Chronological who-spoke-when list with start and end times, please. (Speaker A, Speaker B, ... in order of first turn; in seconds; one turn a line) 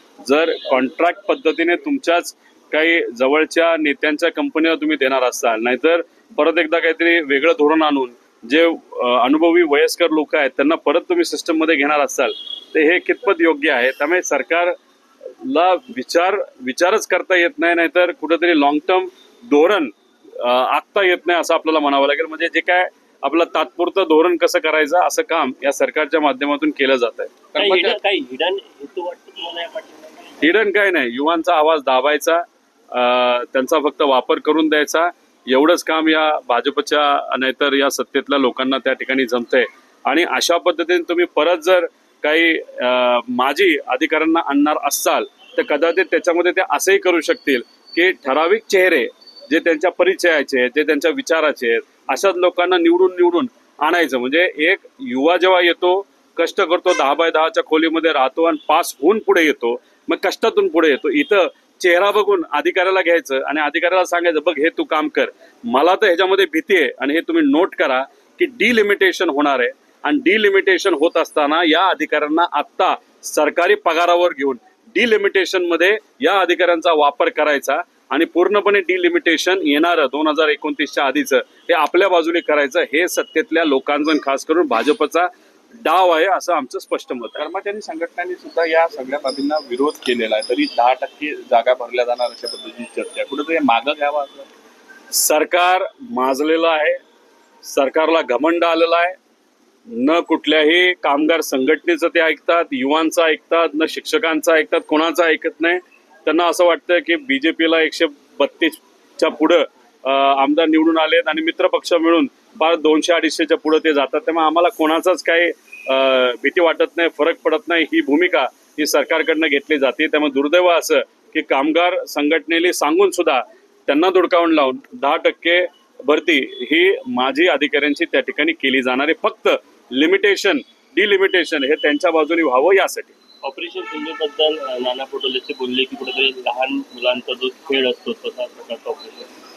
Speaker A: 0.2-14.7
Speaker A: 15.4-28.0
Speaker B: 27.6-30.4
Speaker A: 30.4-85.3
Speaker A: 85.8-87.5
Speaker C: 87.4-94.5
Speaker A: 95.1-97.0
Speaker A: 97.6-99.2
Speaker A: 99.9-133.2
Speaker B: 133.4-139.3